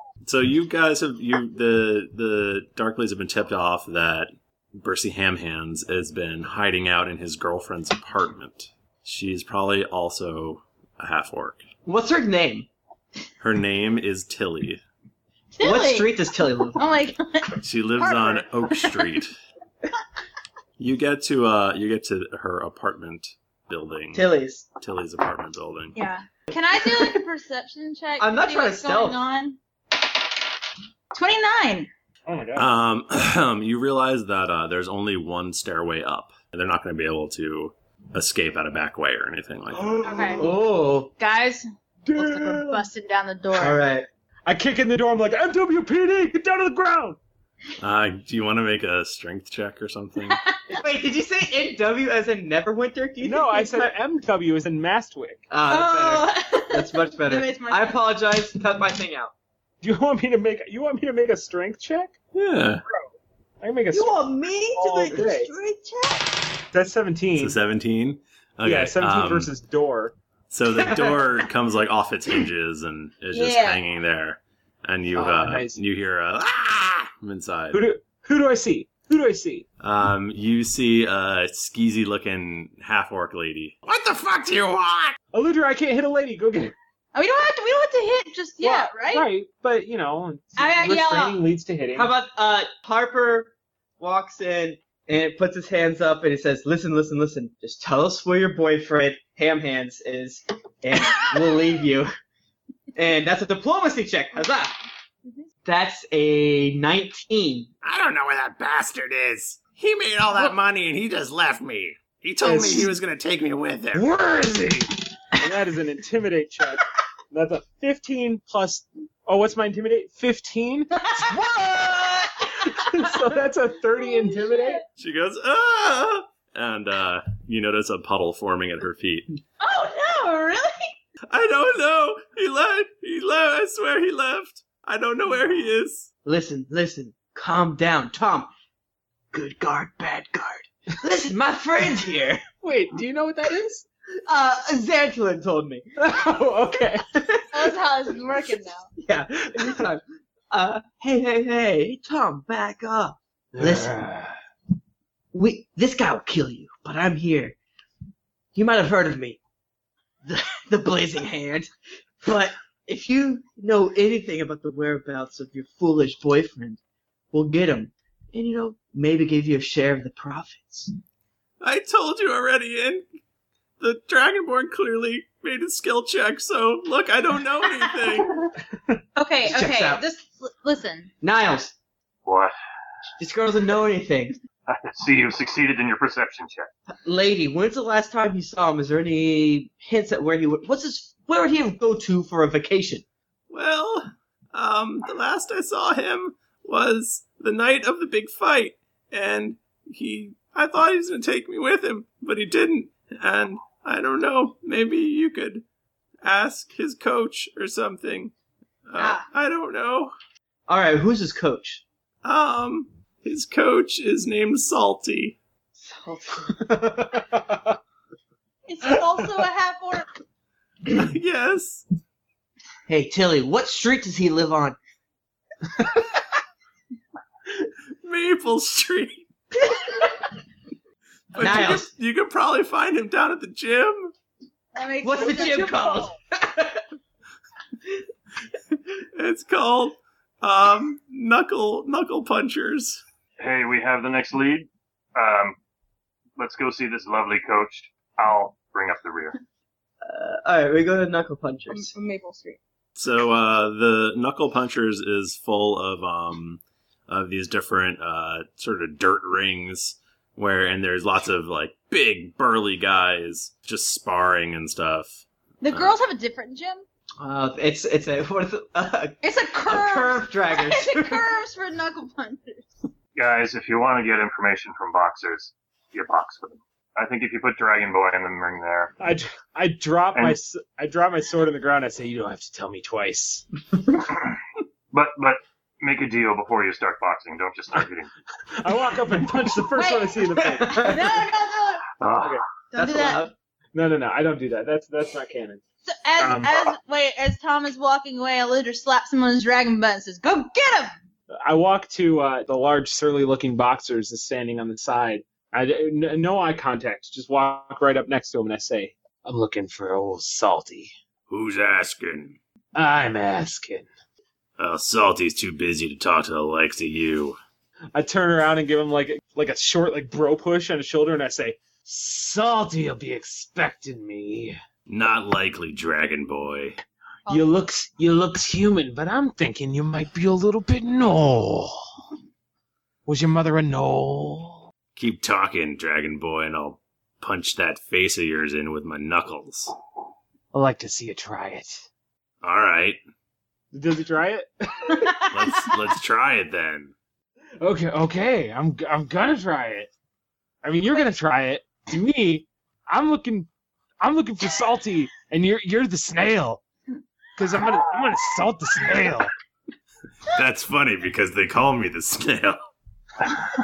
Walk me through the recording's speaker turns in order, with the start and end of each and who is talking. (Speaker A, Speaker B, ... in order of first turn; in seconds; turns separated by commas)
Speaker A: 0.2-11.6, Speaker B: 11.9-12.7, Speaker A: 13.4-14.8, Speaker C: 15.5-16.1, Speaker B: 15.6-17.0, Speaker C: 16.7-19.1, Speaker A: 17.6-19.4, Speaker A: 20.8-24.2, Speaker B: 24.1-24.6, Speaker A: 24.8-26.0, Speaker C: 25.9-29.6, Speaker B: 26.8-27.2, Speaker B: 28.2-29.2, Speaker C: 31.1-31.9, Speaker D: 32.3-32.7, Speaker A: 32.6-40.4, Speaker D: 39.7-40.5, Speaker C: 40.0-40.5, Speaker B: 40.4-41.1, Speaker C: 41.2-41.6, Speaker D: 42.1-42.8, Speaker C: 42.2-43.8, Speaker B: 43.5-44.1, Speaker D: 44.5-47.2, Speaker A: 47.8-50.4, Speaker C: 50.3-50.6, Speaker B: 50.7-53.9, Speaker D: 53.2-55.4, Speaker B: 55.5-59.3, Speaker C: 55.7-58.0, Speaker D: 59.8-62.1, Speaker A: 62.3-62.8, Speaker D: 63.6-65.5, Speaker B: 63.9-66.2, Speaker D: 66.7-67.6, Speaker A: 67.4-69.5, Speaker D: 68.6-70.2, Speaker A: 70.5-77.8, Speaker B: 70.9-71.2, Speaker C: 73.3-73.8, Speaker D: 75.2-75.8, Speaker D: 77.7-79.7, Speaker A: 79.8-85.2, Speaker D: 85.3-86.7, Speaker C: 87.1-89.3, Speaker D: 88.6-92.1, Speaker C: 90.6-91.4, Speaker B: 91.9-102.1, Speaker B: 103.0-104.8, Speaker B: 105.7-107.7, Speaker A: 107.8-114.1, Speaker D: 112.4-112.9, Speaker D: 113.9-121.3, Speaker B: 121.2-122.5, Speaker D: 122.6-124.8, Speaker C: 124.0-124.8, Speaker A: 125.0-129.4, Speaker C: 129.6-130.9, Speaker A: 131.3-136.1, Speaker B: 136.2-138.5, Speaker B: 139.3-142.4, Speaker D: 142.6-143.8, Speaker B: 144.2-145.9, Speaker D: 146.0-147.3, Speaker C: 147.5-148.9, Speaker B: 149.0-154.0, Speaker D: 153.6-154.3, Speaker B: 155.3-157.6, Speaker B: 158.6-159.4, Speaker B: 160.2-161.7, Speaker B: 162.2-166.8, Speaker B: 167.3-170.9, Speaker A: 171.6-173.0, Speaker A: 173.8-178.4, Speaker C: 179.2-181.1, Speaker B: 179.4-180.0, Speaker B: 181.2-181.7, Speaker E: 182.2-182.5, Speaker B: 183.2-184.4, Speaker E: 184.7-186.7, Speaker B: 187.0-193.1, Speaker A: 193.5-205.6, Speaker A: 206.2-208.3, Speaker A: 208.9-210.1, Speaker C: 209.0-209.2, Speaker B: 210.7-211.8, Speaker A: 212.2-215.4, Speaker B: 215.8-216.6, Speaker D: 216.6-217.8, Speaker C: 218.7-220.1, Speaker D: 218.9-219.4, Speaker A: 220.9-221.8, Speaker B: 222.9-224.8, Speaker A: 228.0-229.3, Speaker A: 231.3-234.1, Speaker B: 231.4-231.9, Speaker C: 234.8-236.1, Speaker B: 235.0-236.8, Speaker A: 239.0-243.0, Speaker E: 243.4-245.6, Speaker E: 246.4-249.4, Speaker B: 250.0-251.9, Speaker C: 251.7-252.6, Speaker A: 253.0-266.0, Speaker C: 265.6-266.8, Speaker B: 267.2-271.3, Speaker C: 269.2-272.7, Speaker E: 273.1-278.9, Speaker D: 279.0-283.4, Speaker E: 284.9-288.1, Speaker D: 288.5-291.0, Speaker C: 289.8-291.9, Speaker B: 290.6-291.1, Speaker E: 292.0-292.4, Speaker C: 292.7-293.3, Speaker B: 292.7-293.3, Speaker D: 293.8-295.6, Speaker C: 295.9-300.9, Speaker D: 296.2-296.5, Speaker D: 301.3-310.9, Speaker A: 311.3-312.4, Speaker D: 312.8-313.9, Speaker A: 314.6-317.4, Speaker D: 317.9-324.6, Speaker A: 324.9-326.8, Speaker C: 327.3-327.6, Speaker D: 327.3-331.9, Speaker D: 333.1-334.7, Speaker A: 335.0-339.8, Speaker D: 340.5-341.9, Speaker A: 342.4-343.0, Speaker D: 343.7-345.3, Speaker A: 345.3-346.9, Speaker D: 347.6-349.9, Speaker D: 350.6-353.5, Speaker D: 354.0-356.6, Speaker D: 357.4-359.3, Speaker A: 360.3-362.6